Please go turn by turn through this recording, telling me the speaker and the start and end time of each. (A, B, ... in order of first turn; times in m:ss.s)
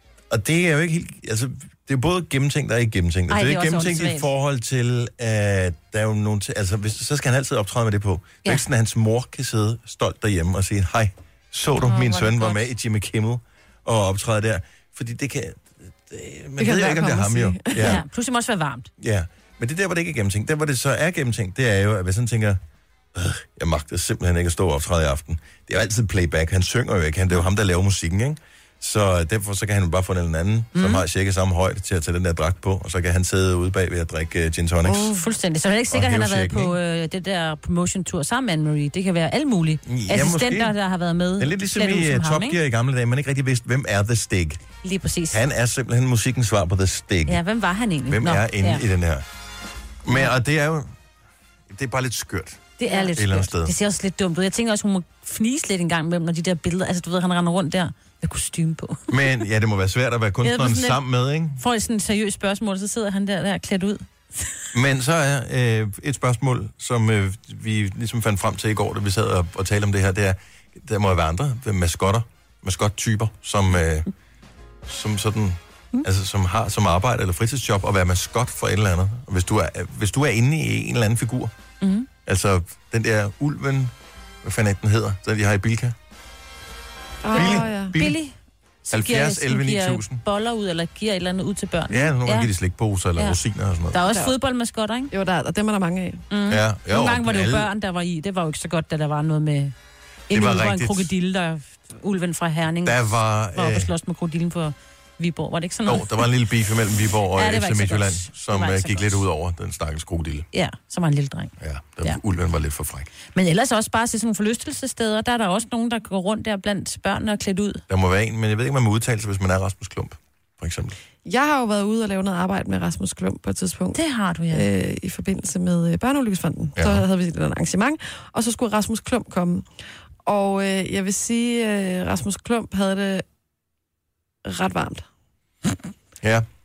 0:00.3-0:18.0 A
0:03.3-0:04.3 B
0:11.8-0:12.6 B
0:16.6-0:18.0 C
0:17.8-0:18.9 B
0:19.0-0:22.6 A
0:23.2-0:35.1 A
0:30.8-0:31.0 B
0:34.9-0:35.2 C
0:35.1-0:42.6 B
0:35.9-0:36.8 A
0:39.9-0:40.8 A
0:41.4-0:44.6 A
0:44.8-0:45.4 B
0:45.3-0:47.4 A
0:47.3-0:48.8 B
0:48.1-0:49.2 A
0:50.0-0:50.9 A
0:51.7-0:53.7 A
0:52.8-0:59.0 B
0:59.1-1:01.6 A
1:00.4-1:01.0 B
1:01.6-1:04.5 B
1:04.7-1:14.1 A
1:14.9-1:21.5 A
1:21.8-1:22.1 B
1:22.2-1:26.0 A
1:27.2-1:27.9 C
1:27.3-1:28.3 B
1:27.3-1:28.2 A
1:28.9-1:32.5 B
1:28.9-1:30.2 A
1:31.9-1:34.0 A
1:33.9-1:35.1 B
1:35.1-1:36.2 C
1:36.3-1:39.7 B
1:36.5-1:37.7 A
1:40.3-1:46.3 B
1:40.3-1:41.1 A
1:42.8-1:43.9 A
1:45.9-1:50.5 A
1:47.4-1:49.2 B
1:50.5-1:52.2 B
1:51.6-1:53.1 A
1:53.3-1:57.8 B
1:57.9-2:01.0 A
2:01.2-2:04.0 C
2:04.0-2:04.7 B
2:04.5-2:09.6 C
2:06.8-2:07.0 A
2:10.2-2:13.2 C
2:14.4-2:15.1 C